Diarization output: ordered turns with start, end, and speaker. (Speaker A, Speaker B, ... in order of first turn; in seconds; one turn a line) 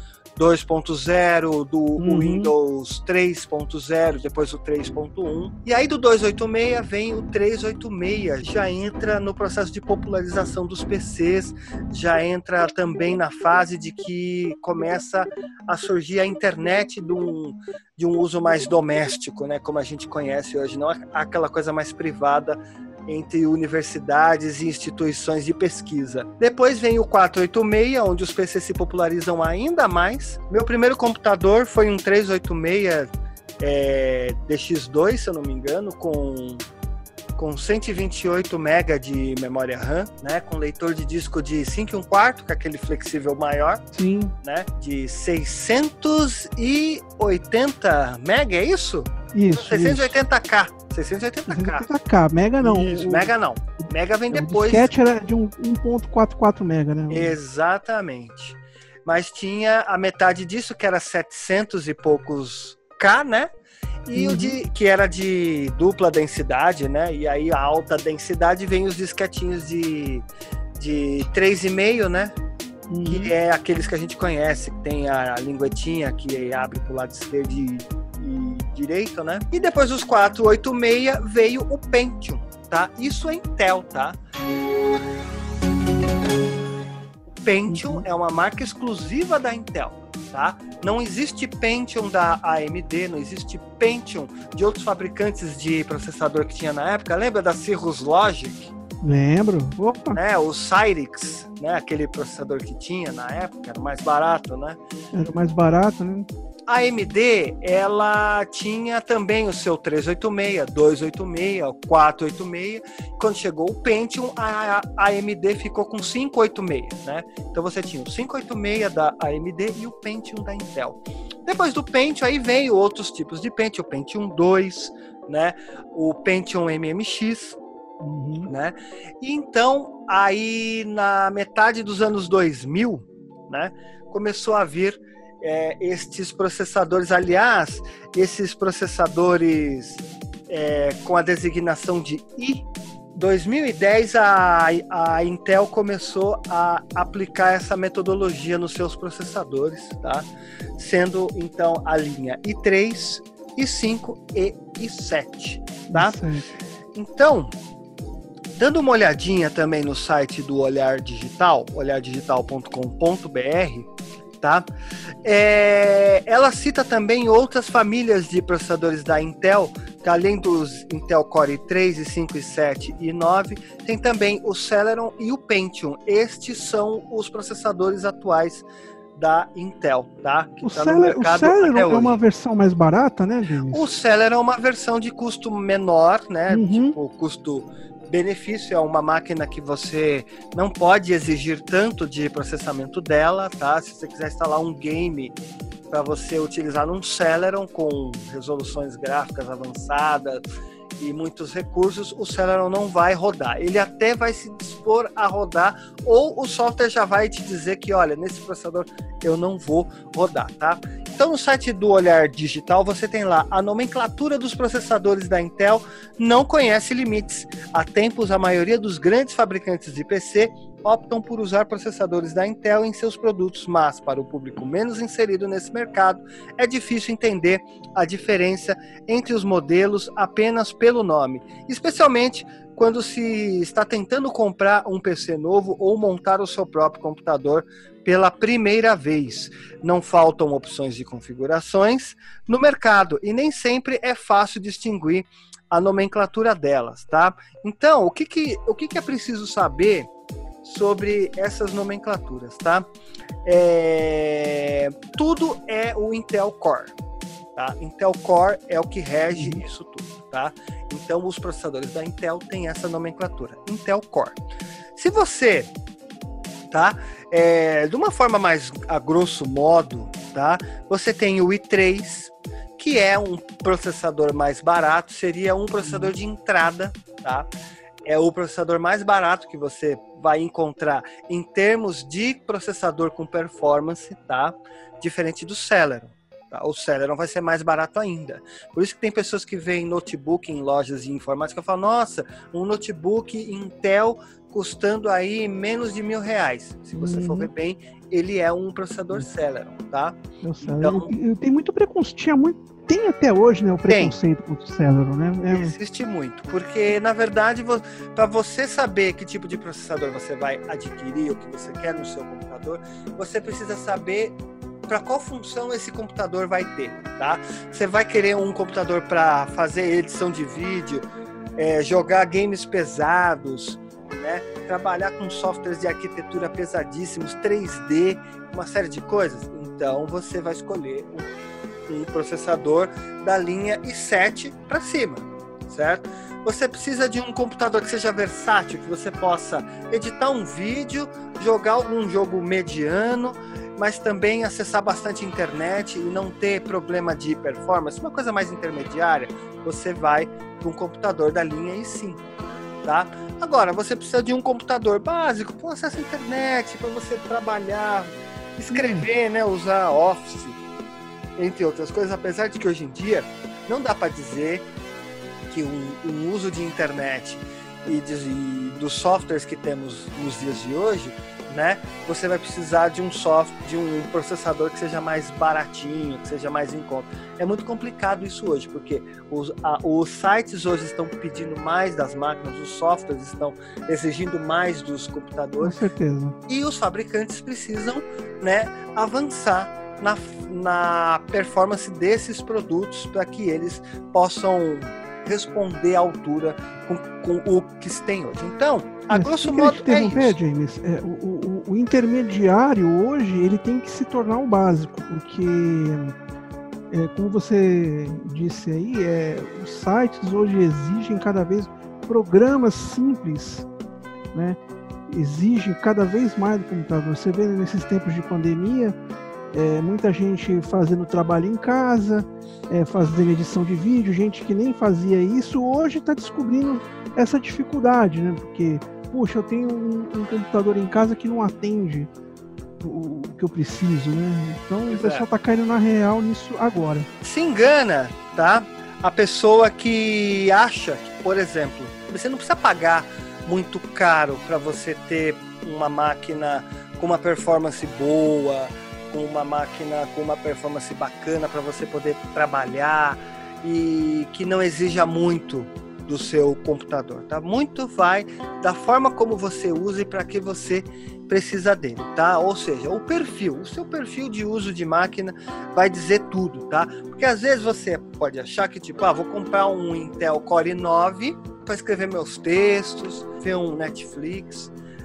Speaker A: 0.3-36.6
Speaker B: 2.0-2.5
Speaker A: 37.4-43.8
Speaker B: 43.9-44.3
Speaker A: 44.4-51.9
Speaker B: 49.3-50.1
Speaker B: 51.5-53.3
Speaker A: 52.6-54.9
Speaker B: 54.3-57.4
Speaker A: 57.1-63.5
Speaker A: 64.0-70.2
Speaker B: 64.1-64.6
Speaker A: 70.8-72.3
Speaker B: 72.9-73.3
Speaker A: 73.0-84.2
Speaker A: 87.4-98.7
Speaker B: 87.7-88.0
Speaker B: 99.0-100.2
Speaker A: 100.1-104.8
Speaker B: 105.1-106.3
Speaker A: 106.7-127.6
Speaker B: 128.0-128.5
Speaker A: 128.4-150.2
Speaker A: 150.8-156.2
Speaker B: 155.9-156.5
Speaker A: 156.9-157.5
Speaker A: 158.6-163.9
Speaker A: 164.4-164.7
Speaker A: 165.2-178.7
Speaker A: 179.2-182.2
Speaker B: 180.6-183.8
Speaker A: 183.7-195.3
Speaker B: 186.5-186.9
Speaker A: 195.9-200.4
Speaker A: 201.0-250.1
Speaker A: 250.6-252.9
Speaker A: 253.4-256.9
Speaker A: 257.6-264.4
Speaker B: 259.3-259.6
Speaker A: 264.9-265.7
Speaker A: 266.7-277.5
Speaker B: 275.8-276.1
Speaker A: 278.0-301.1
Speaker B: 296.9-297.5
Speaker B: 300.4-305.7
Speaker A: 303.9-304.1
Speaker A: 305.5-321.1
Speaker A: 321.6-331.3
Speaker A: 331.9-352.3
Speaker A: 352.8-360.6
Speaker B: 358.7-359.1
Speaker A: 361.4-364.6
Speaker A: 365.5-385.8
Speaker B: 385.6-386.4
Speaker A: 386.5-400.4
Speaker B: 399.1-406.1
Speaker B: 406.9-413.7
Speaker B: 414.3-418.9
Speaker B: 419.5-432.1
Speaker B: 432.8-437.1
Speaker A: 434.9-435.2
Speaker A: 437.2-474.7